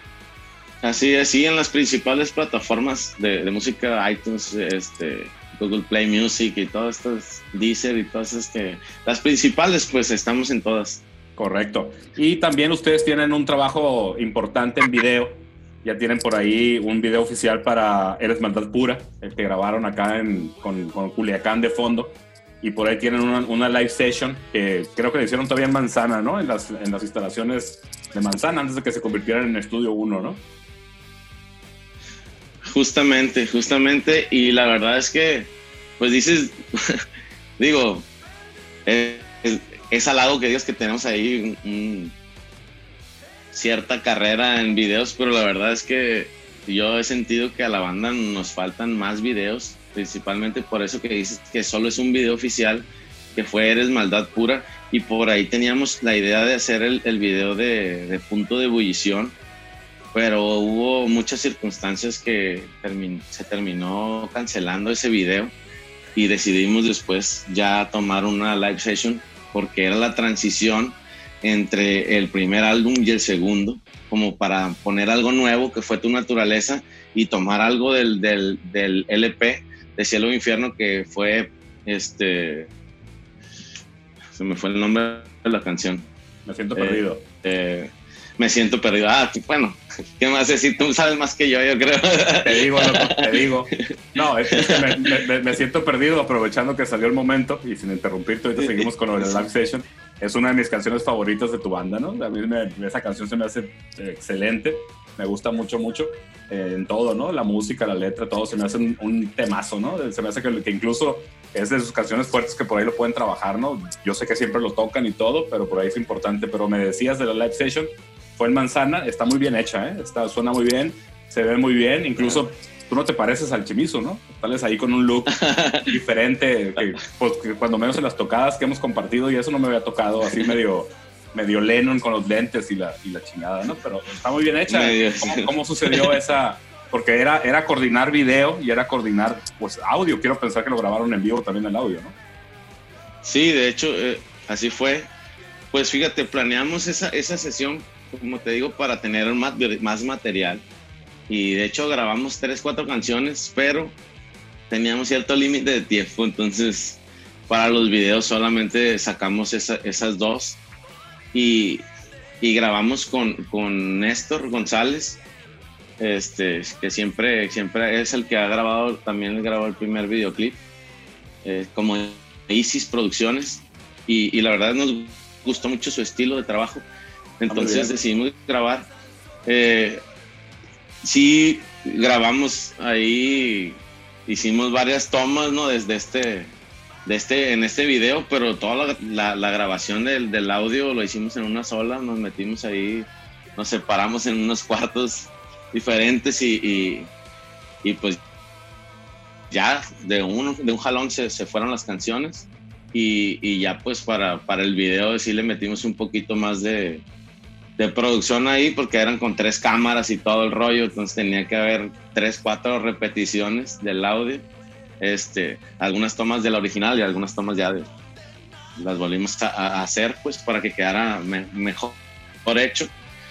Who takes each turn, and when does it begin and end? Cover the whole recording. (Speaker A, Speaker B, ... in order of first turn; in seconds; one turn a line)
Speaker A: 0.8-11.0
Speaker B: 11.4-30.4
Speaker A: 32.7-37.0
Speaker A: 37.6-38.1
Speaker A: 38.9-42.1
Speaker A: 43.5-59.4
Speaker A: 60.1-65.5
Speaker A: 66.1-82.7
Speaker A: 84.3-86.1
Speaker B: 86.4-87.2
Speaker A: 86.8-93.2
Speaker B: 92.4-142.1
Speaker A: 94.5-95.2
Speaker A: 98.5-99.4
Speaker A: 125.3-125.9
Speaker A: 130.2-130.6
Speaker A: 134.7-136.1
Speaker A: 143.2-145.1
Speaker A: 145.7-150.6
Speaker A: 151.3-153.9
Speaker A: 154.7-160.6
Speaker A: 161.3-161.8
Speaker A: 162.4-165.2
Speaker A: 166.0-170.6
Speaker A: 171.4-176.9
Speaker A: 177.4-178.9
Speaker B: 177.5-177.9
Speaker A: 179.4-180.0
Speaker A: 181.0-186.5
Speaker A: 187.1-197.1
Speaker A: 197.8-198.2
Speaker A: 199.5-207.0
Speaker A: 207.8-214.4
Speaker A: 215.0-217.9
Speaker A: 218.8-222.9